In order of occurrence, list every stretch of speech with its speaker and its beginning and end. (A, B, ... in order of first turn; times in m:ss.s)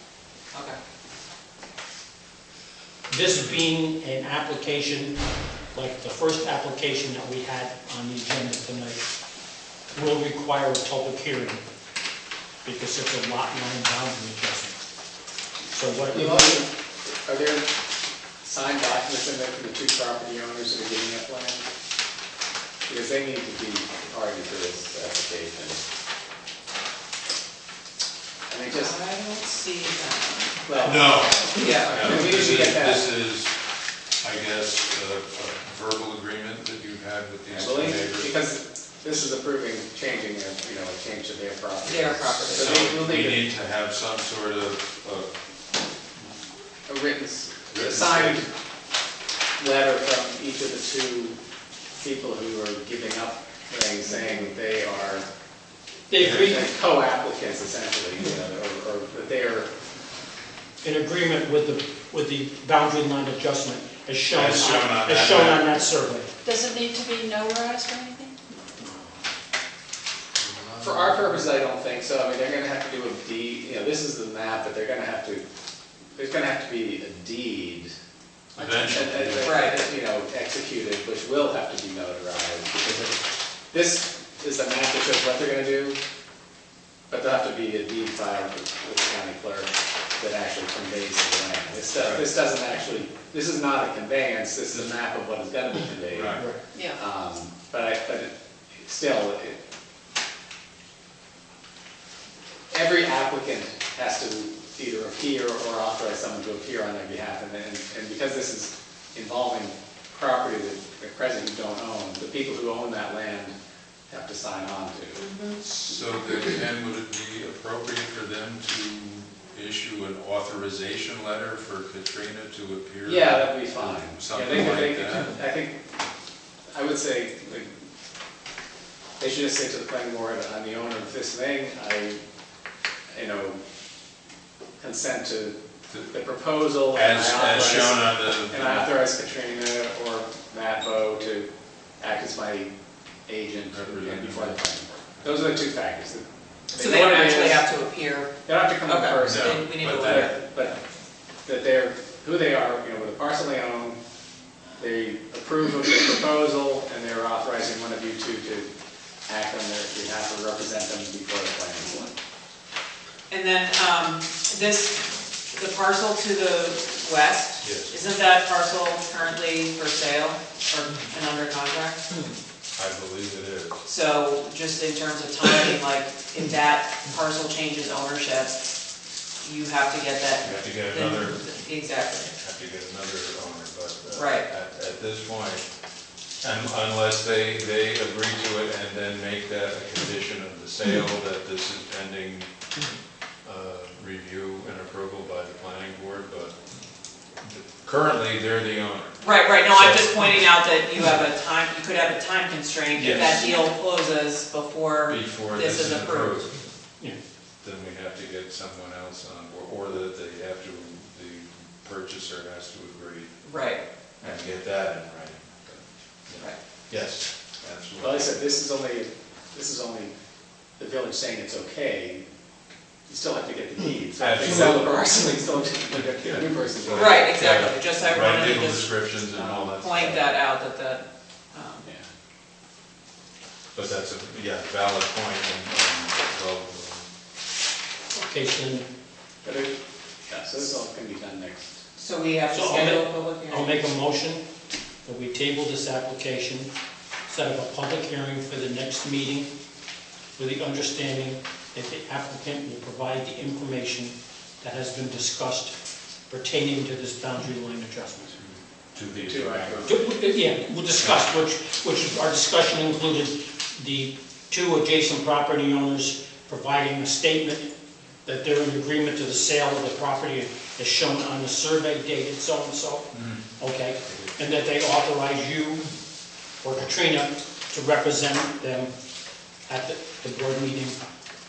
0:00.5-0:00.8 A
0:03.1-0:05.2 B
0:05.7-0:09.0 B
0:09.9-0:11.6 B
0:12.6-0:14.8 B
0:15.7-0:16.6 B
0:16.1-0:17.7 C
0:18.4-0:21.7 C
0:22.9-0:25.8 C
0:28.5-0:29.0 C
0:28.7-0:31.0 A
0:30.7-0:33.0 C
0:30.8-0:33.6 D
0:31.5-0:32.3 A
0:34.2-0:38.3 D
0:37.5-0:43.5 C
0:41.8-0:42.8 A
0:42.5-0:45.3 D
0:46.9-0:48.5 C
0:47.7-0:48.5 D
0:49.6-0:51.4 C
0:51.9-0:55.3 C
0:56.1-0:56.7 B
0:56.2-0:56.6 D
0:56.2-0:59.7 C
1:00.8-1:06.3 B
1:04.3-1:05.7 D
1:06.4-1:08.3 E
1:10.4-1:11.4 D
1:10.8-1:15.4 C
1:16.2-1:17.9 C
1:18.6-1:26.0 C
1:18.6-1:19.7 D
1:19.4-1:19.8 A
1:27.1-1:36.4 C
1:31.9-1:32.3 D
1:36.1-1:36.5 D
1:36.7-1:37.0 E
1:37.0-1:39.6 C
1:42.7-1:53.6 C
1:54.1-1:55.2 C
1:55.2-1:55.6 A
1:55.6-2:05.4 D
2:03.0-2:05.8 C
2:06.7-2:07.7 C
2:09.2-2:12.2 C
2:13.1-2:13.6 C
2:14.8-2:15.6 C
2:15.9-2:16.2 D
2:16.1-2:21.5 C
2:16.9-2:18.9 D
2:22.0-2:22.7 C
2:23.3-2:27.6 C
2:23.7-2:24.6 D
2:26.7-2:30.4 A
2:28.5-2:30.8 C
2:29.2-2:30.3 D
2:31.4-2:34.0 C
2:34.8-2:38.7 C
2:39.3-2:42.1 C
2:43.3-2:52.0 A
2:47.6-2:47.9 D
2:52.8-2:53.8 D
2:53.8-2:58.6 A
2:59.4-3:02.3 A
3:00.4-3:01.5 D
3:02.4-3:05.6 D
3:04.1-3:04.5 A
3:06.4-3:12.5 D
3:13.4-3:16.6 D
3:17.4-3:20.5 D
3:19.2-3:26.5 A
3:22.9-3:23.5 D
3:25.1-3:26.5 D
3:27.6-3:33.3 D
3:33.4-3:33.8 A
3:34.2-3:38.4 D
3:38.0-3:40.1 C
3:40.8-3:42.2 C
3:43.1-3:47.4 C
3:44.2-3:45.1 D
3:46.1-3:50.4 D
3:46.9-3:49.2 A
3:49.3-3:49.8 C
3:49.8-3:51.9 A
3:53.7-3:57.1 D
3:58.1-3:58.9 B
3:59.4-3:59.8 C
4:00.3-4:01.8 C
4:02.0-4:03.7 A
4:02.5-4:04.4 B
4:05.0-4:06.7 B
4:07.3-4:09.5 B
4:10.4-4:15.8 B
4:16.3-4:18.4 B
4:18.9-4:20.0 D
4:19.2-4:20.5 C
4:19.9-4:27.7 B
4:28.2-4:35.9 B
4:33.1-4:33.4 D
4:36.6-4:38.9 B
4:39.7-4:41.0 B